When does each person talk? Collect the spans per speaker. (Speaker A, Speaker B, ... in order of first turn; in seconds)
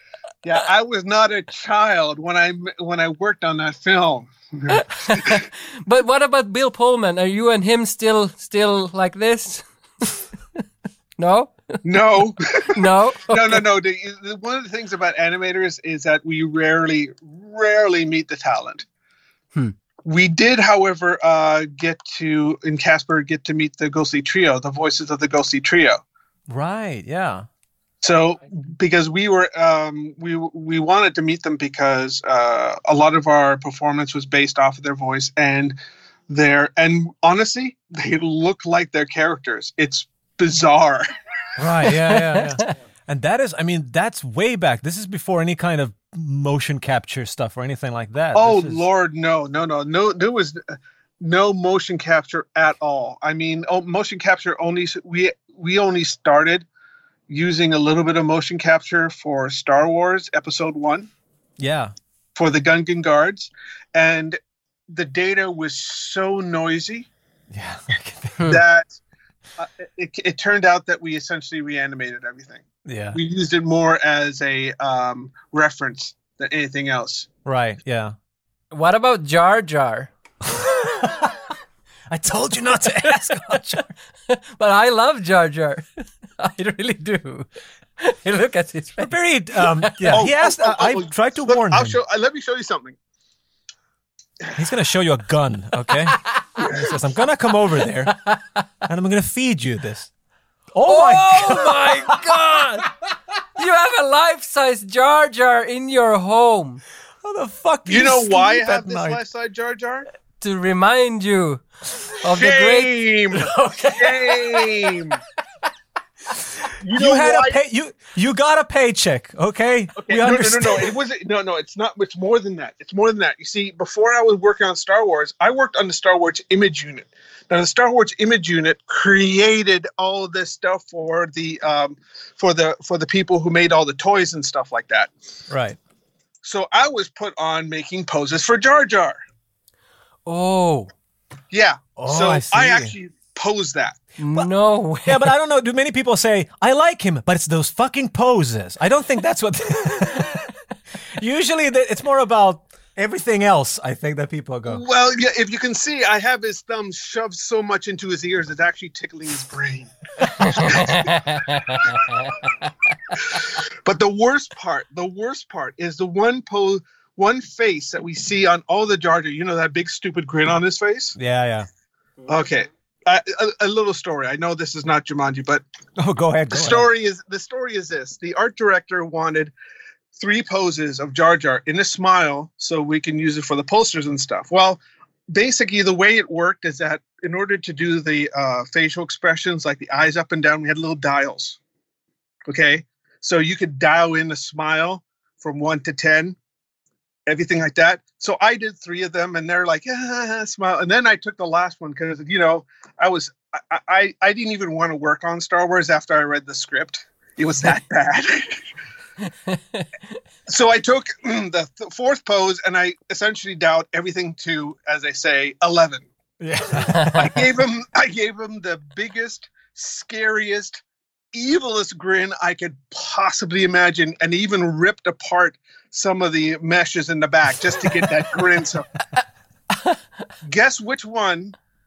Speaker A: 0.4-5.4, 11.8-18.9, 20.1-26.0, 28.0-35.8, 36.3-41.0, 48.3-50.6, 51.2-56.7, 57.3-61.1, 62.4-64.4, 64.9-67.1, 68.5-69.0, 69.6-77.3, 90.1-93.0, 107.9-110.1, 112.3-115.2, 116.8-117.6, 120.0-135.1, 136.4-139.2, 141.5-144.0, 154.7-159.9, 160.5-160.9, 163.8-171.1, 172.3-175.6, 176.5-179.5, 180.2-191.6, 192.4-196.4, 197.3-208.6, 210.5-216.1, 217.1-220.8, 221.3-228.9, 230.4-231.6
Speaker B: 4.7-10.2, 11.2-11.5, 12.8-13.6, 42.1-42.6, 78.7-80.1, 83.1-83.6, 84.3-85.9, 86.4-87.5, 88.0-90.2, 100.9-102.9, 103.6-106.8, 110.4-111.6, 112.2-115.0, 140.3-140.9, 144.2-145.3, 160.2-162.4, 209.4-209.9
Speaker C: 26.5-27.4, 41.6-48.8, 61.6-61.9, 67.5-68.5, 72.9-73.2, 77.5-78.1, 80.5-81.4, 82.1-83.9, 89.0-92.0, 94.6-98.2, 98.8-100.1, 100.7-102.3, 107.2-109.2, 116.9-120.9, 135.5-135.8, 142.0-142.9, 145.1-150.5, 151.2-154.8, 171.2-171.7, 176.0-176.9, 216.4-217.3